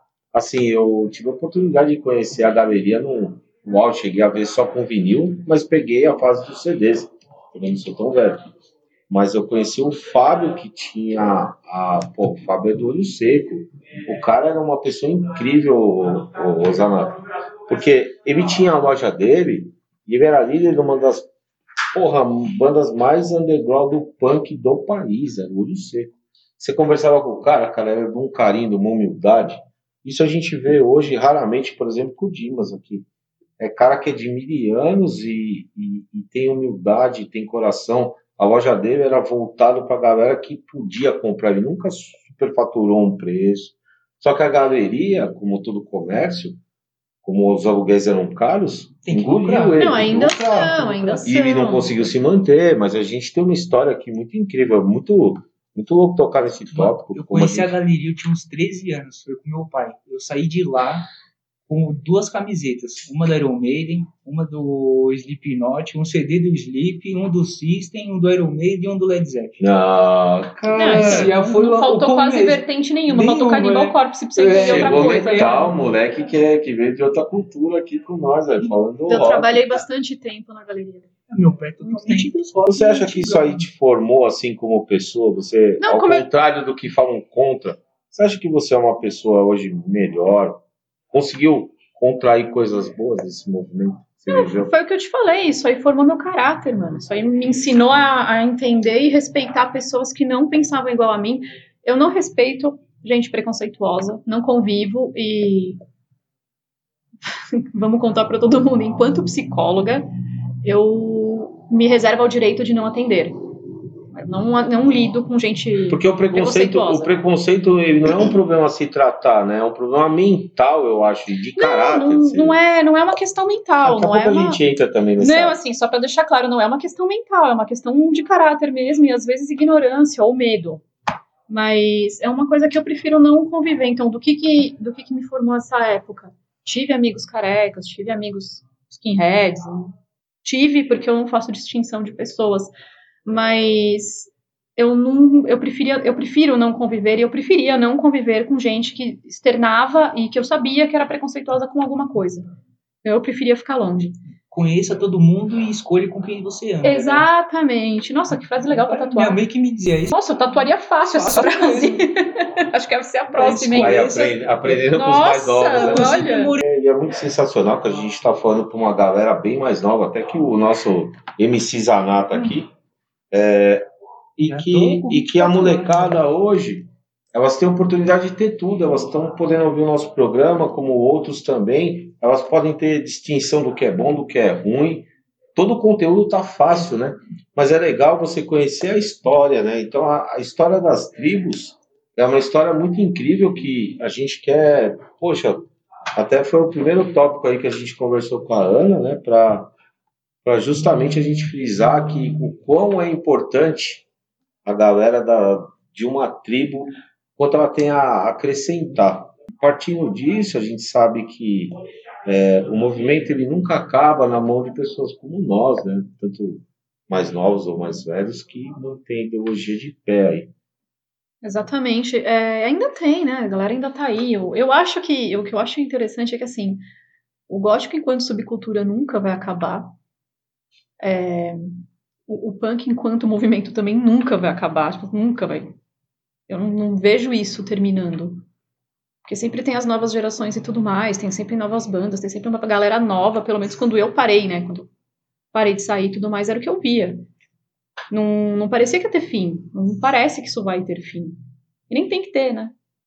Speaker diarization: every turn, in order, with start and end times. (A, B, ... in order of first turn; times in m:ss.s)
0:00.3-0:08.4 A
0:09.1-0:21.3 A
0:21.9-0:33.0 A
0:33.6-0:46.6 A
0:47.2-0:57.8 A
0:49.0-0:50.0 B
0:49.8-0:52.0 C
0:50.9-0:51.2 B
0:56.7-1:01.0 B
1:01.7-1:09.6 B
1:09.6-1:11.3 A
1:10.6-1:15.6 B
1:10.7-1:15.7 C
1:14.5-1:19.8 A
1:19.1-1:21.1 C
1:21.3-1:23.6 B
1:21.8-1:22.3 C
1:22.6-1:30.6 A
1:25.8-1:26.3 C
1:31.1-1:34.7 A
1:34.3-1:45.8 C
1:47.5-1:50.0 C
1:50.6-1:53.4 C
1:54.1-1:57.1 C
1:55.9-2:02.6 A
2:01.6-2:04.6 C
2:03.8-2:05.6 A
2:05.2-2:10.8 C
2:11.5-2:19.9 C
2:20.4-2:22.7 C
2:23.2-2:32.5 C
2:33.0-2:34.2 C
2:34.5-2:37.3 B
2:36.8-2:39.4 C
2:38.7-2:40.2 B
2:40.1-2:44.2 C
2:41.0-2:42.0 B
2:43.3-2:44.9 B
2:43.8-2:52.7 A
2:44.9-2:46.6 C
2:45.7-2:46.6 B
2:53.3-2:53.8 A
2:54.4-3:19.7 A
2:54.4-2:56.2 B
3:20.4-3:24.0 A
3:24.6-3:40.5 A
3:41.4-3:46.8 C
3:47.5-3:49.9 C
3:51.0-3:55.7 C
3:56.5-3:58.4 C
3:59.2-4:04.9 C
4:05.5-4:07.2 C
4:08.1-4:11.4 C
4:11.9-4:12.7 C